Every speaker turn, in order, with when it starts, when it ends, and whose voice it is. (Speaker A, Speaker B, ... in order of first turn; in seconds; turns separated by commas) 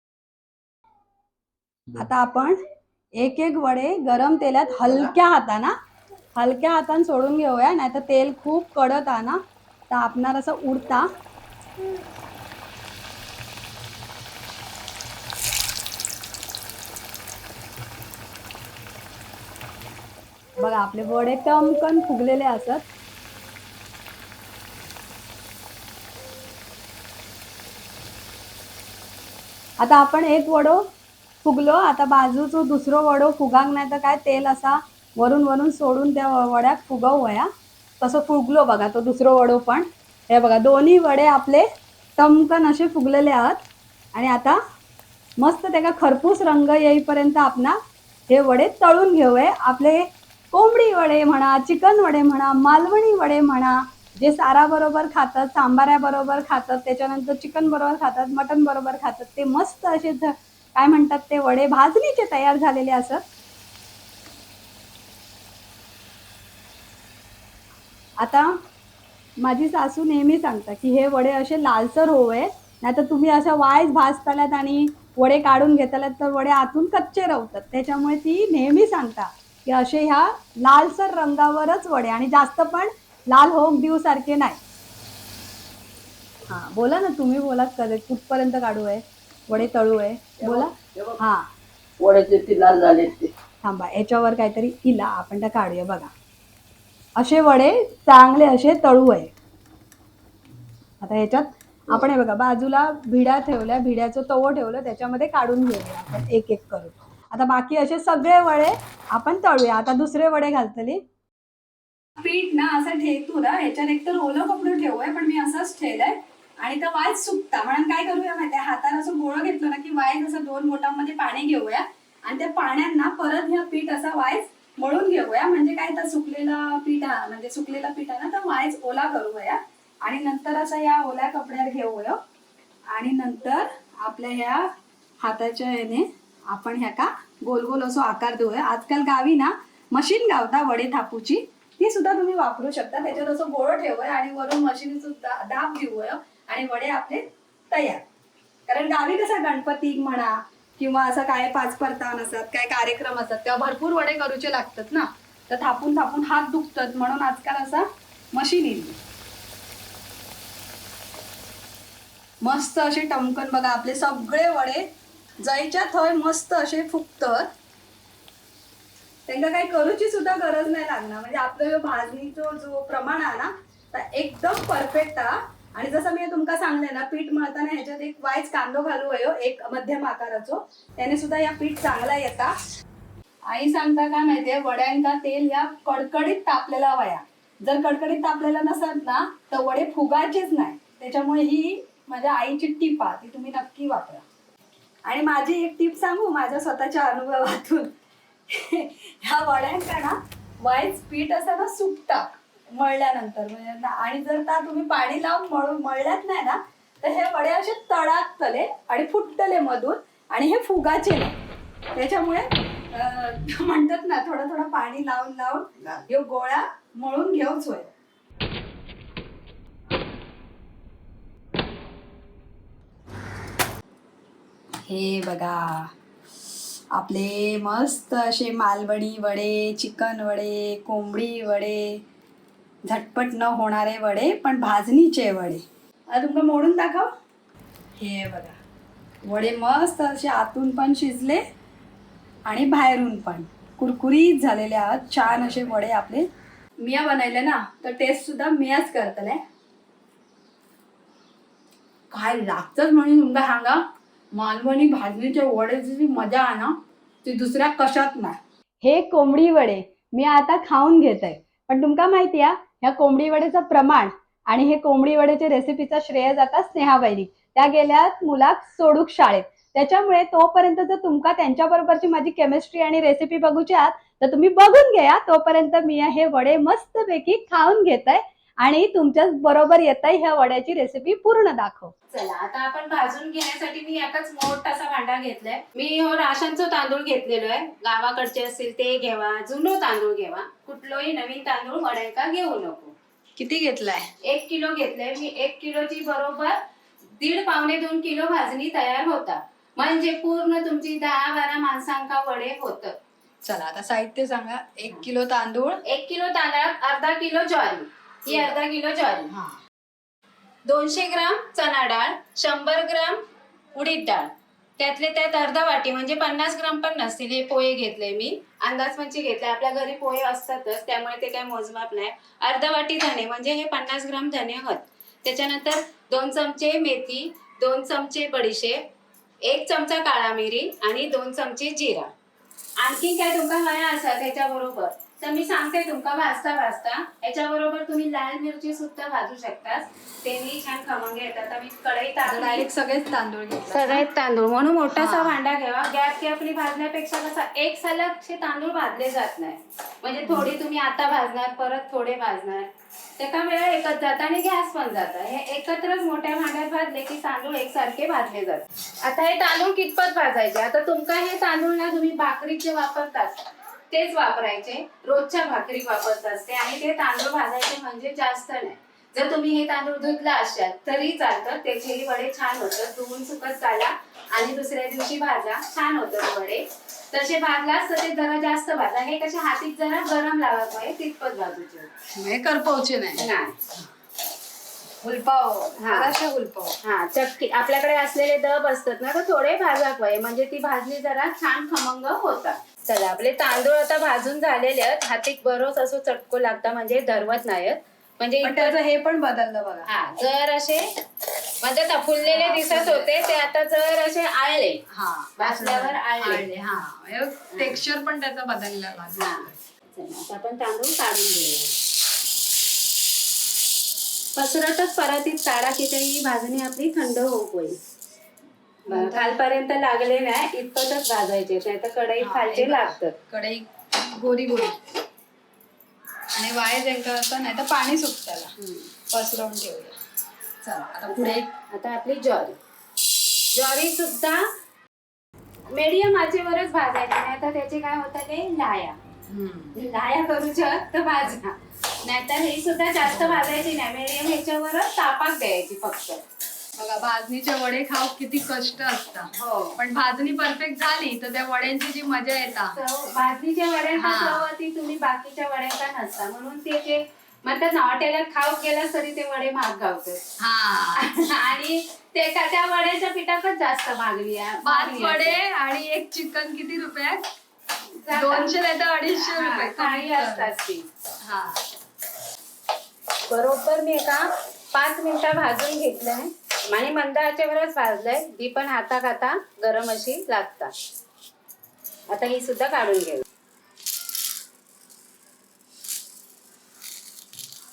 Speaker A: 1.9-2.6, Speaker A: 3.2-5.7, Speaker A: 6.4-9.4, Speaker A: 9.9-11.1, Speaker A: 20.6-22.8, Speaker A: 29.8-30.8, Speaker A: 31.4-37.5, Speaker A: 38.0-41.6, Speaker A: 42.2-44.6, Speaker A: 45.4-47.8, Speaker A: 48.3-63.2, Speaker A: 68.2-68.5, Speaker A: 69.4-84.6, Speaker A: 86.5-91.4, Speaker B: 90.5-91.2, Speaker B: 92.0-93.3, Speaker A: 93.6-96.1, Speaker A: 97.2-99.3, Speaker A: 101.0-111.0, Speaker A: 112.2-132.2, Speaker A: 132.9-134.7, Speaker A: 135.2-148.0, Speaker A: 148.7-159.0, Speaker A: 162.4-164.8, Speaker A: 165.4-167.5, Speaker A: 169.3-182.5, Speaker A: 183.5-194.2, Speaker A: 195.0-197.9, Speaker A: 198.5-211.4, Speaker A: 211.9-217.9, Speaker A: 224.9-225.9, Speaker A: 226.9-232.0, Speaker A: 232.8-237.1, Speaker A: 238.0-238.6, Speaker A: 239.2-241.4, Speaker A: 242.5-246.2, Speaker A: 246.8-249.4, Speaker A: 252.1-253.8, Speaker A: 254.3-281.9, Speaker C: 282.1-292.9, Speaker A: 293.4-294.1, Speaker C: 294.2-296.6, Speaker C: 297.2-302.9, Speaker A: 303.4-305.8, Speaker C: 305.9-309.3, Speaker A: 308.3-308.5, Speaker A: 309.3-309.6, Speaker C: 310.6-313.2, Speaker C: 313.7-328.8, Speaker C: 329.4-332.1, Speaker C: 332.8-342.7, Speaker A: 342.2-344.1, Speaker C: 343.7-363.3, Speaker A: 344.9-345.4, Speaker A: 350.2-350.6, Speaker C: 363.9-381.9, Speaker A: 382.1-383.3, Speaker C: 383.1-383.8, Speaker A: 385.0-386.8, Speaker C: 385.8-386.1, Speaker C: 386.8-398.8, Speaker A: 398.4-399.9, Speaker C: 399.9-400.9, Speaker C: 401.6-404.8, Speaker A: 402.2-403.5, Speaker A: 404.9-409.6, Speaker C: 405.4-406.5, Speaker C: 407.5-407.8, Speaker C: 409.1-411.7, Speaker C: 414.4-417.8, Speaker A: 418.9-419.4, Speaker C: 418.9-423.2, Speaker A: 422.2-424.8, Speaker A: 426.4-428.5, Speaker C: 428.6-428.9, Speaker A: 429.1-429.9, Speaker A: 430.6-431.5, Speaker C: 431.2-432.6, Speaker C: 433.5-434.4, Speaker C: 435.7-439.0, Speaker A: 439.3-439.7, Speaker C: 439.7-446.2, Speaker A: 443.0-443.6, Speaker A: 446.8-452.8, Speaker C: 449.3-449.8, Speaker C: 452.7-460.2, Speaker A: 454.0-454.4, Speaker A: 460.4-461.1, Speaker C: 460.9-465.4, Speaker A: 464.6-467.2, Speaker C: 468.0-468.5, Speaker A: 468.1-470.5, Speaker C: 469.1-470.8, Speaker A: 471.2-471.6, Speaker C: 473.3-480.7, Speaker C: 482.1-483.2